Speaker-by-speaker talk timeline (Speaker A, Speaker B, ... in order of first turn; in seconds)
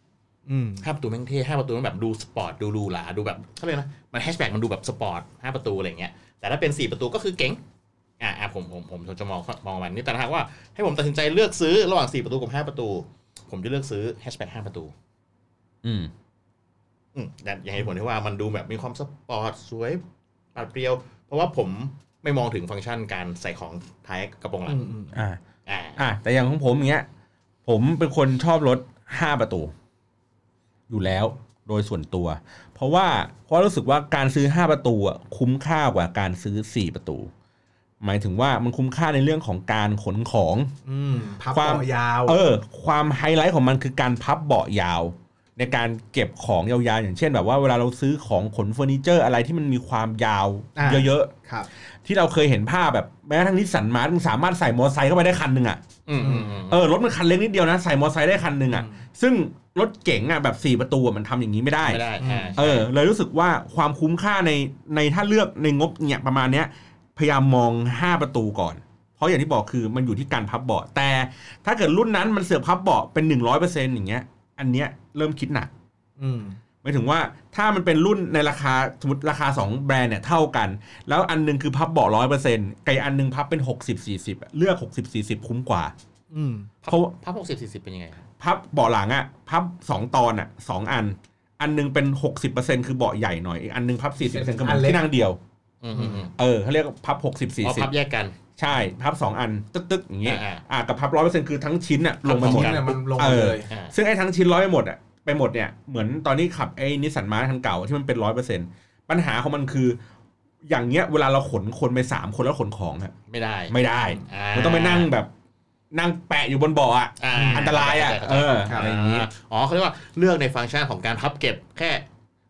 Speaker A: 0.5-0.8, 24.7-25.1, 40.9-42.4, 50.8-51.7, 56.2-56.6, 58.7-59.0, 62.2-62.6, 76.2-76.6, 86.3-86.7, 94.3-95.1, 95.9-96.3, 102.3-103.7, 117.3-117.7
Speaker B: 0.8-7.6, 8.2-14.9, 17.1-20.0, 20.6-24.8, 25.7-26.0, 56.1-56.8, 61.8-62.9, 86.8-88.2, 95.8-96.3, 97.6-98.3, 100.2-100.6, 102.3-102.9, 113.3-115.1, 117.2-122.0
Speaker C: 15.8-16.1, 25.1-25.4, 26.0-27.1, 27.7-29.7, 30.9-37.3, 38.0-40.7, 41.5-51.3, 52.0-55.8, 56.7-62.0, 62.6-75.7, 76.8-85.9, 86.9-87.1, 88.4-95.4, 96.4-97.9, 98.6-110.0, 110.7-113.1, 113.7-115.3, 115.9-119.3